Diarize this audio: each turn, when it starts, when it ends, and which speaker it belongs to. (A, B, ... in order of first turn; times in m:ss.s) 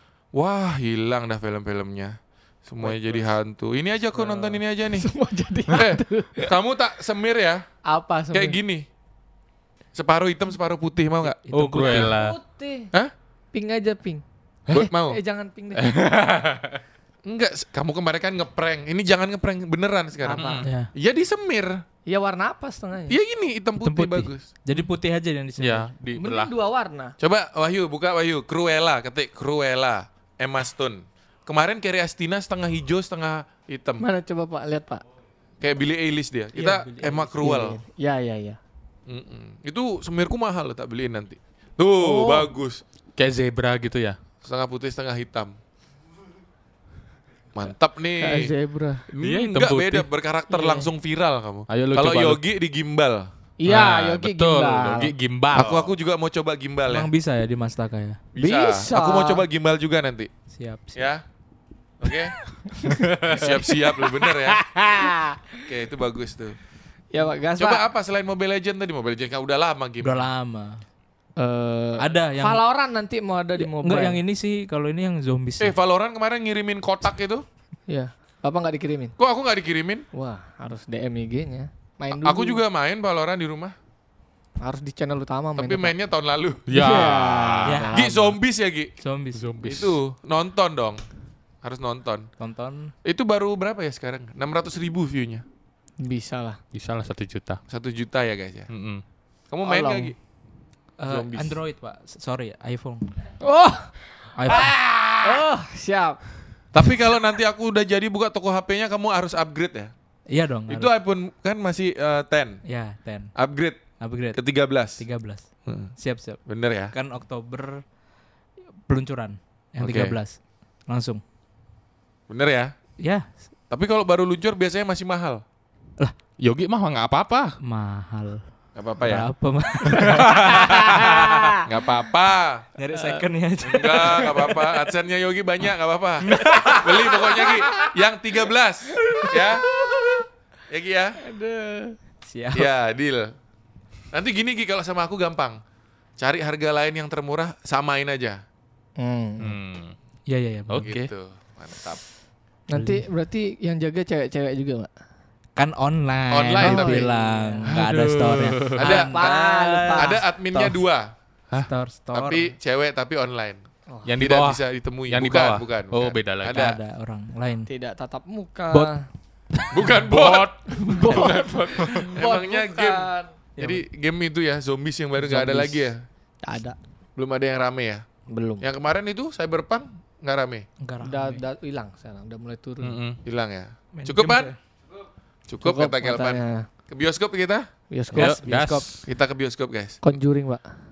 0:00.3-0:05.1 A
0:02.8-0:03.3 B
0:04.1-0:04.6 B
0:04.9-0:06.5 C
0:05.7-0:07.6 A
0:07.8-0:08.6 C
0:08.3-0:08.8 A
0:09.9-0:11.4 A
0:11.2-0:12.2 B
0:11.5-0:12.4 D
0:11.9-0:12.9 C
0:13.5-0:14.2 C
0:14.7-0:15.2 A
0:14.9-0:15.9 C
0:15.7-0:16.8 D
0:17.2-0:21.8 A
0:20.2-0:20.7 C
0:20.3-0:20.7 D
0:20.6-0:20.9 B
0:22.0-0:23.2 C
0:23.1-0:24.5 A
0:23.8-0:25.9 B
0:25.6-0:26.5 D
0:26.2-0:27.2 C
0:27.2-0:34.0 A
0:34.0-0:35.0 C
0:35.6-0:37.8 A
0:36.5-0:37.2 B
0:37.2-0:38.6 C
0:39.1-0:42.8 A
0:42.0-0:42.5 C
0:43.2-0:44.2 D
0:44.4-0:45.6 A
0:47.5-0:48.5 A
0:48.2-0:49.0 C
0:49.1-0:53.3 A
0:49.2-0:50.0 D
0:50.5-0:50.9 C
0:51.7-0:52.4 D
0:53.6-0:55.1 C
0:53.6-0:55.9 D
0:55.5-0:57.1 A
0:56.9-0:58.2 B
0:58.3-1:00.3 A
0:58.4-0:59.4 C
1:00.5-1:01.0 B
1:01.0-1:01.2 A
1:02.0-1:02.3 A
1:02.7-1:05.6 C
1:02.9-1:03.1 D
1:03.2-1:04.6 A
1:05.7-1:06.6 A
1:07.1-1:07.8 C
1:07.6-1:10.3 A
1:10.0-1:10.8 B
1:11.4-1:14.2 C
1:12.0-1:12.6 B
1:13.6-1:15.7 B
1:15.6-1:17.4 A
1:17.9-1:19.1 C
1:19.2-1:20.0 A
1:20.1-1:22.6 C
1:22.1-1:23.7 A
1:24.6-1:25.9 C
1:25.6-1:26.8 A
1:26.7-1:27.8 D
1:26.7-1:28.4 C
1:27.6-1:28.1 B
1:27.9-1:28.9 A
1:29.0-1:29.4 B
1:29.3-1:30.0 D
1:29.6-1:31.0 A
1:31.6-1:32.3 A
1:32.4-1:32.9 B
1:33.0-1:35.4 A
1:36.0-1:36.6 C
1:36.7-1:37.6 D
1:37.7-1:38.7 A
1:38.7-1:39.0 D
1:39.5-1:40.2 A
1:39.6-1:40.1 C
1:41.0-1:43.1 B
1:41.1-1:41.6 A
1:43.4-1:43.9 C
1:44.4-1:44.8 B
1:44.5-1:46.2 C
1:44.5-1:45.5 A
1:46.7-1:49.9 A
1:50.3-1:50.9 B
1:50.7-1:52.6 A
1:52.6-1:53.3 B
1:53.3-1:53.8 A
1:54.0-1:54.4 B
1:54.3-1:55.0 A
1:55.0-1:56.4 B
1:55.6-1:55.9 A
1:56.4-1:56.9 A
1:56.9-1:57.8 B
1:58.9-2:01.2 B
1:59.8-2:00.2 A
2:02.3-2:02.7 A
2:03.0-2:03.3 B
2:03.7-2:05.4 A
2:06.4-2:07.6 D
2:07.6-2:08.4 B
2:08.8-2:09.3 A
2:09.0-2:11.1 B
2:10.0-2:11.1 D
2:10.3-2:11.6 C
2:11.6-2:12.7 A
2:12.8-2:14.7 B
2:12.9-2:13.2 C
2:13.6-2:19.7 A
2:16.3-2:17.8 B
2:17.2-2:17.9 C
2:19.0-2:20.2 C
2:20.7-2:21.2 A
2:21.2-2:22.0 C
2:22.2-2:22.7 B
2:22.5-2:23.3 A
2:24.1-2:25.6 A
2:26.2-2:28.4 A
2:29.0-2:29.6 C
2:29.4-2:29.9 D
2:30.3-2:30.9 B
2:30.7-2:31.1 D
2:30.8-2:32.0 A
2:32.7-2:34.9 C
2:32.7-2:33.0 B
2:35.6-2:40.1 B
2:36.3-2:37.1 A
2:36.6-2:37.7 C
2:37.7-2:38.9 D
2:38.7-2:39.3 A
2:38.8-2:40.7 C
2:39.9-2:41.1 A
2:41.6-2:42.5 B
2:42.1-2:43.6 A
2:43.9-2:44.2 C
2:44.0-2:46.7 D
2:44.2-2:46.8 A
2:46.5-2:47.7 B
2:47.7-2:49.0 C
2:49.6-2:50.0 B
2:49.7-2:56.0 A
2:50.2-2:53.3 C
2:53.6-2:53.8 B
2:55.2-2:55.9 C
2:56.4-2:56.8 C
2:57.2-2:58.0 A
2:58.3-2:58.6 C
2:58.6-3:00.6 A
3:00.8-3:01.4 B
3:01.0-3:03.0 C
3:02.8-3:03.2 D
3:03.2-3:04.5 A
3:03.9-3:04.6 B
3:05.5-3:07.7 A
3:05.6-3:06.7 C
3:07.9-3:08.4 C
3:08.1-3:08.9 B
3:08.1-3:09.0 D
3:09.0-3:10.0 A
3:10.0-3:10.6 C